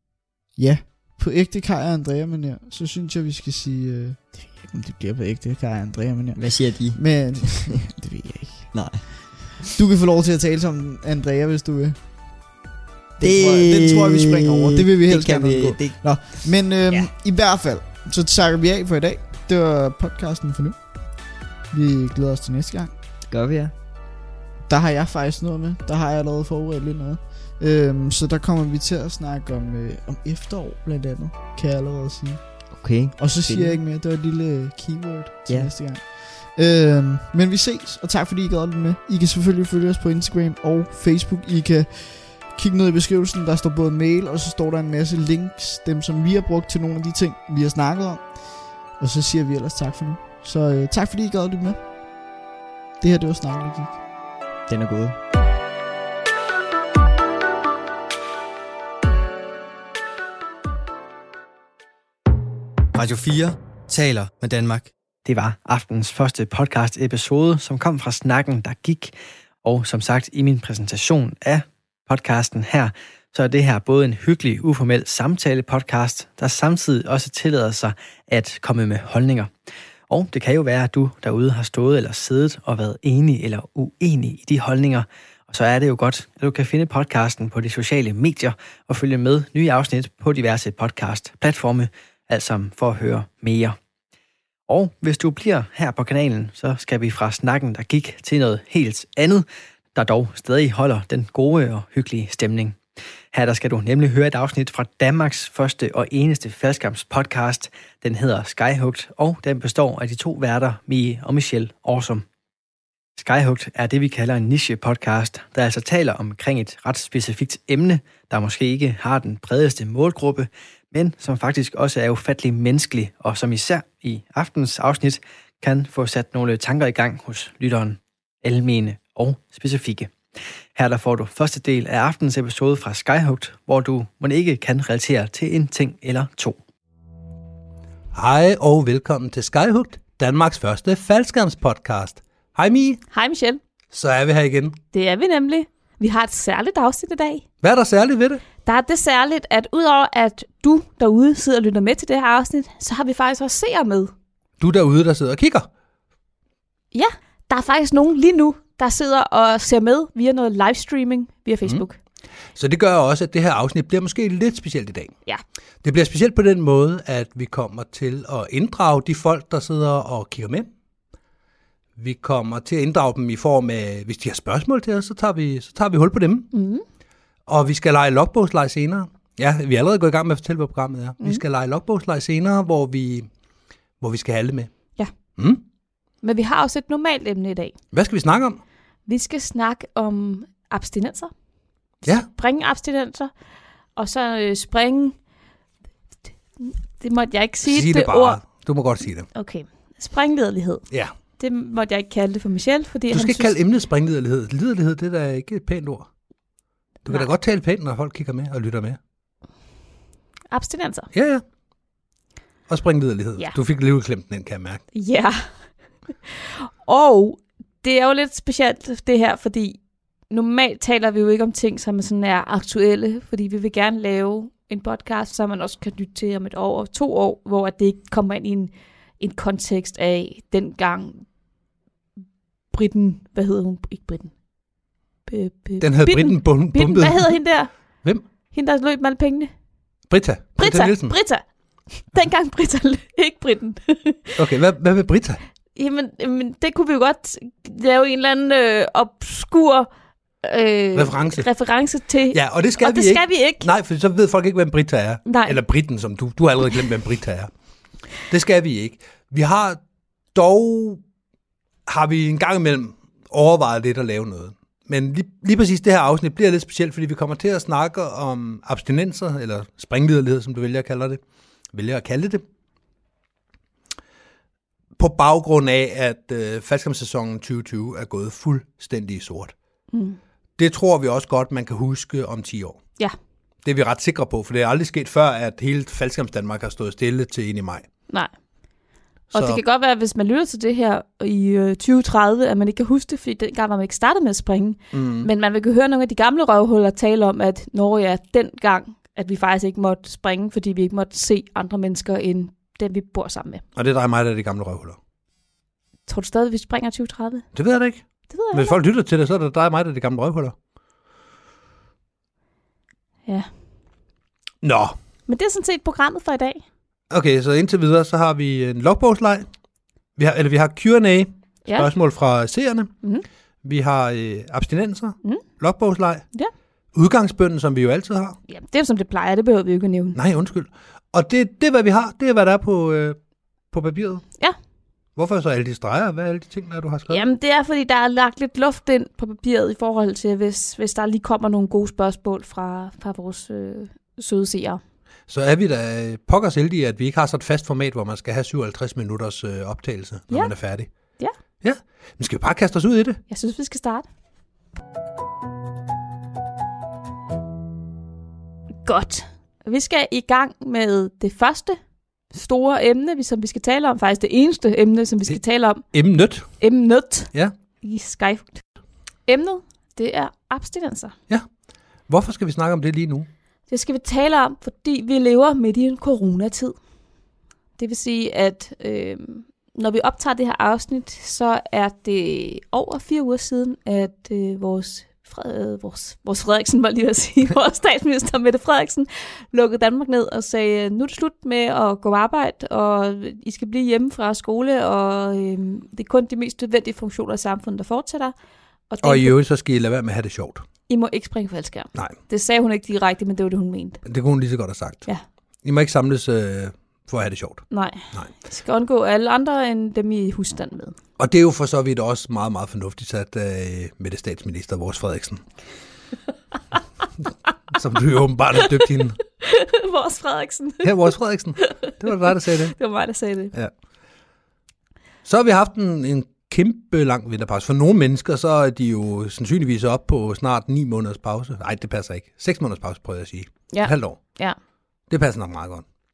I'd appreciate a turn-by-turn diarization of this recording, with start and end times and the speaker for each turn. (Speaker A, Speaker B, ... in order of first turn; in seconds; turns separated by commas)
Speaker A: 0.6-9.2, Speaker B: 6.3-7.7, Speaker B: 8.7-9.6, Speaker A: 9.7-12.0, Speaker A: 13.2-22.9, Speaker B: 13.2-17.1, Speaker B: 23.3-23.7, Speaker A: 24.7-52.2, Speaker B: 32.7-33.8, Speaker B: 35.5-35.7, Speaker A: 53.0-54.0, Speaker B: 54.7-55.1, Speaker C: 62.9-64.9, Speaker D: 65.2-79.5, Speaker D: 80.1-93.8, Speaker D: 94.7-102.8, Speaker D: 103.3-112.2, Speaker D: 113.2-130.2, Speaker D: 130.7-136.6, Speaker E: 138.1-143.0, Speaker F: 143.1-143.6, Speaker E: 143.9-144.8, Speaker F: 144.9-147.4, Speaker E: 147.6-148.4, Speaker F: 148.6-154.1, Speaker E: 154.6-155.7, Speaker F: 156.9-162.0, Speaker E: 162.5-165.1, Speaker E: 165.8-170.7, Speaker E: 172.0-176.5, Speaker F: 176.5-176.8, Speaker E: 177.5-183.3, Speaker E: 184.0-185.6, Speaker F: 186.2-187.8, Speaker E: 187.9-188.6, Speaker F: 189.0-193.3, Speaker E: 192.0-192.3, Speaker F: 193.9-195.3, Speaker F: 196.6-198.7, Speaker E: 197.6-199.3, Speaker F: 199.3-203.5, Speaker E: 203.1-206.1, Speaker E: 207.0-209.0, Speaker F: 210.5-211.1, Speaker E: 211.1-211.4, Speaker E: 212.7-214.8, Speaker F: 214.9-216.1, Speaker F: 216.8-231.4, Speaker F: 232.7-239.6, Speaker E: 235.8-238.2, Speaker E: 240.1-241.2, Speaker F: 240.6-244.4, Speaker E: 244.3-245.4, Speaker F: 245.7-249.9, Speaker F: 250.4-253.7, Speaker E: 250.9-251.5, Speaker E: 252.3-257.5, Speaker F: 255.2-255.6, Speaker E: 258.1-259.8, Speaker E: 260.3-261.0, Speaker E: 261.9-272.4, Speaker E: 275.0-279.6, Speaker F: 279.9-280.2, Speaker E: 280.6-283.0, Speaker E: 283.6-287.9, Speaker F: 288.1-303.6, Speaker E: 289.3-289.6, Speaker E: 294.9-295.3, Speaker E: 303.8-305.0, Speaker F: 306.1-307.5, Speaker E: 307.5-310.6, Speaker F: 308.0-308.8, Speaker E: 314.6-314.9, Speaker F: 315.3-316.6, Speaker E: 317.1-319.5, Speaker E: 320.1-323.1, Speaker F: 321.6-321.9, Speaker E: 323.6-326.4, Speaker E: 326.9-328.4, Speaker F: 328.5-330.2, Speaker E: 330.1-334.3, Speaker E: 335.1-337.2, Speaker F: 337.1-344.8, Speaker E: 345.3-353.2, Speaker F: 350.3-351.3, Speaker F: 353.3-354.1, Speaker F: 358.8-368.6, Speaker E: 365.9-366.7, Speaker F: 369.2-371.1, Speaker E: 371.3-373.3, Speaker F: 373.7-376.8, Speaker F: 377.8-398.3, Speaker F: 398.9-399.3, Speaker E: 399.0-400.6, Speaker F: 400.9-404.0, Speaker E: 404.0-408.3, Speaker F: 407.7-411.0, Speaker E: 411.2-415.5, Speaker E: 417.7-419.2, Speaker F: 419.4-423.5, Speaker E: 420.8-422.7, Speaker E: 425.2-434.5, Speaker F: 433.7-434.6, Speaker E: 435.1-435.9